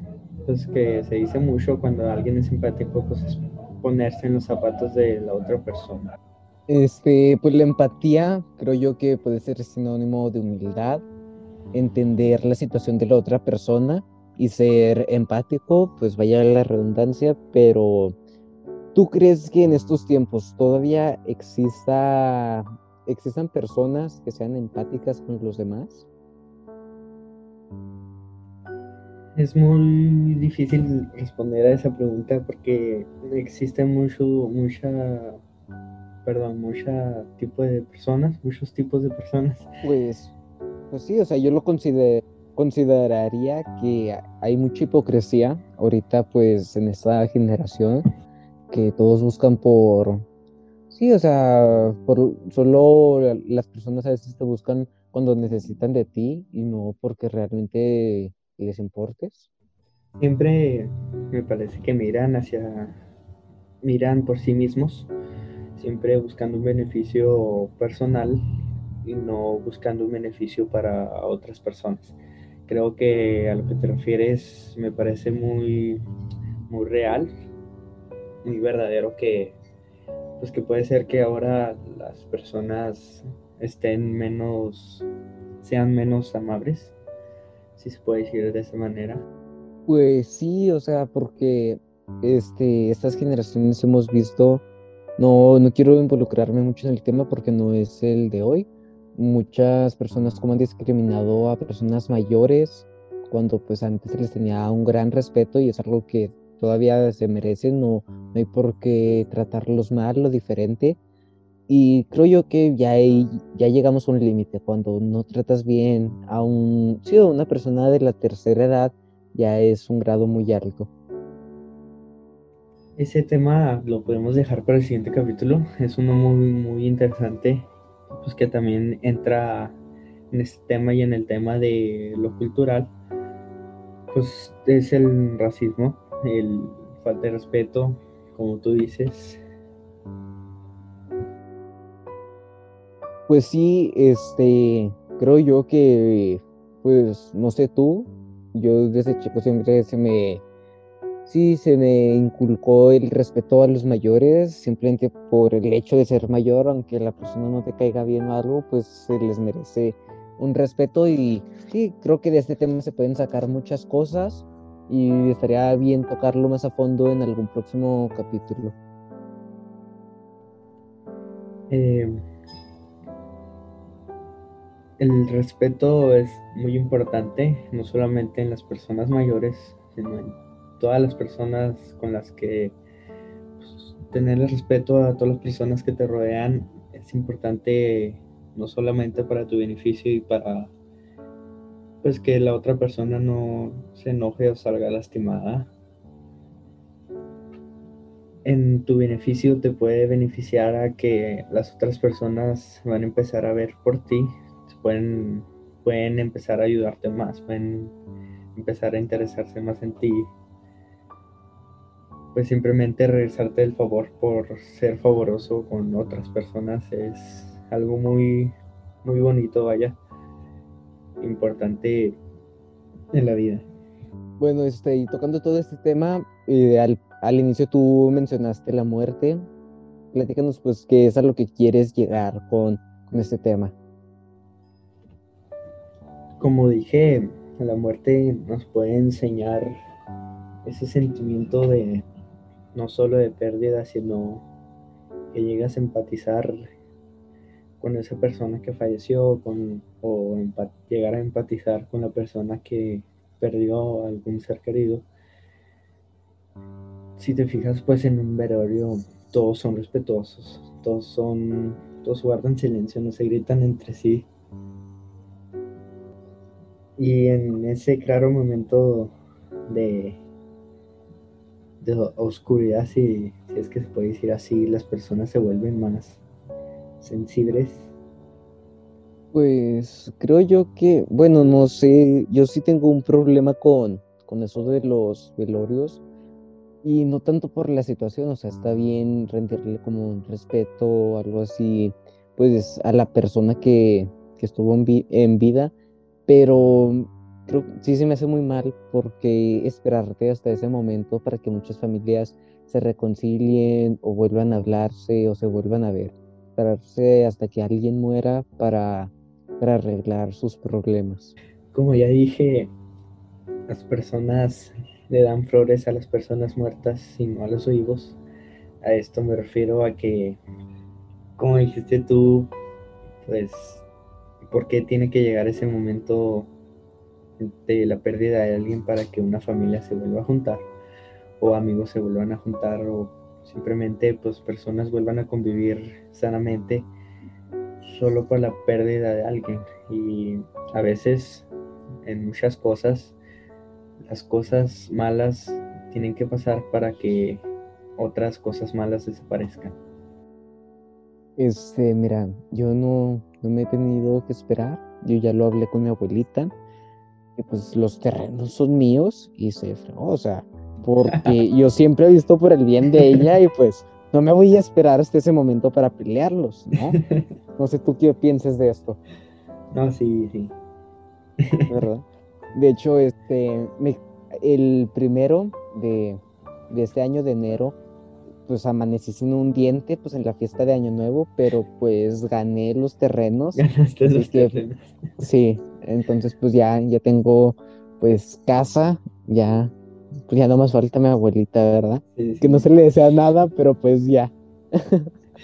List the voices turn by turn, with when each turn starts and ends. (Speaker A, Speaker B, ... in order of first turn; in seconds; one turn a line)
Speaker A: 0.5-6.1
Speaker B: 6.7-11.0
Speaker B: 11.7-18.1
Speaker B: 18.9-26.1
Speaker A: 29.4-35.4
Speaker A: 36.2-39.7
Speaker B: 39.8-40.3
Speaker B: 40.9-48.0
Speaker B: 48.7-50.2
Speaker B: 50.9-59.5
Speaker A: 60.2-63.0
Speaker A: 63.8-65.1
Speaker A: 65.8-68.4
Speaker A: 69.0-76.0
Speaker A: 76.7-77.3
Speaker A: 78.4-79.6
Speaker A: 80.4-85.1
Speaker A: 85.6-87.0
Speaker A: 87.8-89.2
Speaker B: 89.9-94.6
Speaker B: 95.2-111.0
Speaker B: 111.7-120.9
Speaker A: 123.0-129.8
Speaker A: 130.3-132.9
Speaker A: 134.1-139.4
Speaker B: 143.3-150.4
Speaker B: 151.3-168.8
Speaker A: 171.7-172.2
Speaker A: 175.0-182.8
Speaker A: 183.6-190.7
Speaker A: 192.0-195.7
Speaker A: 198.4-207.9
Speaker A: 208.5-210.3
Speaker A: 212.3-220.0
Speaker A: 221.2-222.2
Speaker A: 223.1-223.7
Speaker B: 224.4-229.4
Speaker B: 230.1-233.8
Speaker A: 236.4-239.7
Speaker A: 240.6-242.1
Speaker A: 242.7-244.5
Speaker A: 245.3-246.7
Speaker A: 247.8-255.1
Speaker A: 257.2-264.3
Speaker A: 267.0-269.2
Speaker A: 269.7-270.2
Speaker A: 271.8-276.2
Speaker A: 277.0-277.9
Speaker B: 279.3-286.0
Speaker B: 286.8-295.7
Speaker B: 296.3-311.3
Speaker A: 311.7-312.7
Speaker A: 313.7-318.2
Speaker A: 318.8-320.4
Speaker A: 321.4-322.5
Speaker A: 323.2-323.9
Speaker A: 324.5-326.5
Speaker A: 327.4-330.7
Speaker A: 331.4-336.9
Speaker A: 337.8-341.5
Speaker A: 342.0-343.2
Speaker A: 344.0-347.5
Speaker A: 348.0-349.8
Speaker B: 351.4-356.5
Speaker B: 357.4-367.0
Speaker A: 362.9-363.3
Speaker A: 366.9-367.3
Speaker B: 367.6-369.0
Speaker A: 369.7-370.6
Speaker A: 371.4-371.7
Speaker B: 371.7-377.8
Speaker B: 378.5-384.6
Speaker A: 383.6-384.9
Speaker B: 385.2-389.7
Speaker B: 390.3-395.1
Speaker A: 392.1-392.7